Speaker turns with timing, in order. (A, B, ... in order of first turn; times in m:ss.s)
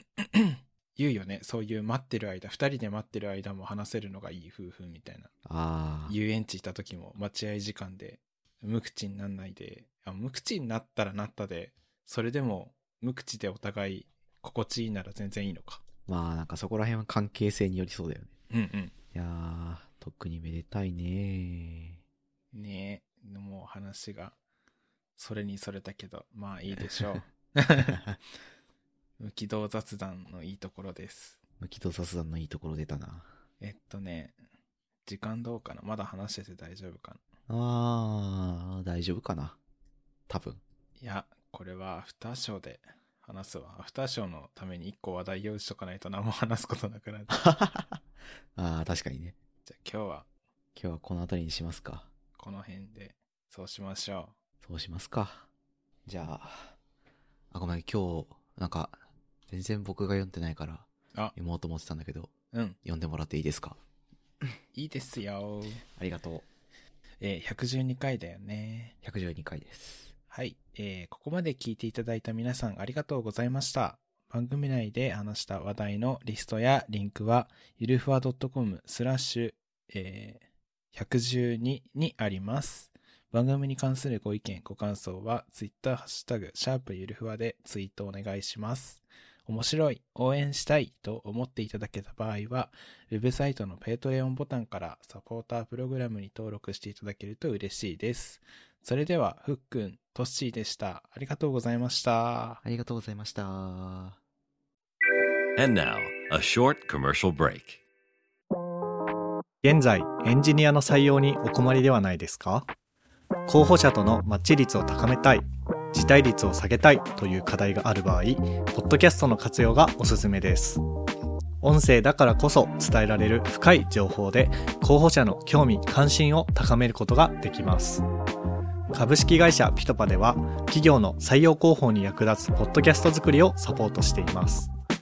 0:00.2-0:05.3 A
0:05.4-0:06.2 B
0:06.1-0:15.8 A
0:16.0-0:18.3 B
0:18.5-0:18.9 A
0:19.1-0:22.0 B
0:22.5-0:24.4 A
0:25.2-0:28.0 A
0:29.2-0:31.4 A
0:31.6-0:33.3 B
0:33.6-0:34.4 A
0:35.0-0:37.2 A
0:37.5-0:39.6 B
0:40.3-0:40.6 B
0:41.0-0:47.3 A
0:47.3-0:48.0 B
0:48.6-0:49.4 B
0:49.6-0:50.2 A
0:50.7-0:52.1 B
0:52.4-0:54.3 A
0:54.6-0:55.5 B
0:56.0-0:56.7 B
0:57.5-1:02.3 B
1:02.5-1:02.8 A
1:02.8-1:03.8 B
1:04.7-1:05.8 A
1:06.0-1:06.4 B
1:07.2-1:08.9 A
1:09.0-1:10.1 B
1:10.3-1:42.6 A
1:42.6-1:44.2 B
1:45.6-1:47.8 C
1:49.6-1:52.7 D
1:53.5-2:00.8 D
2:01.6-2:08.0 D
2:08.9-2:14.7 D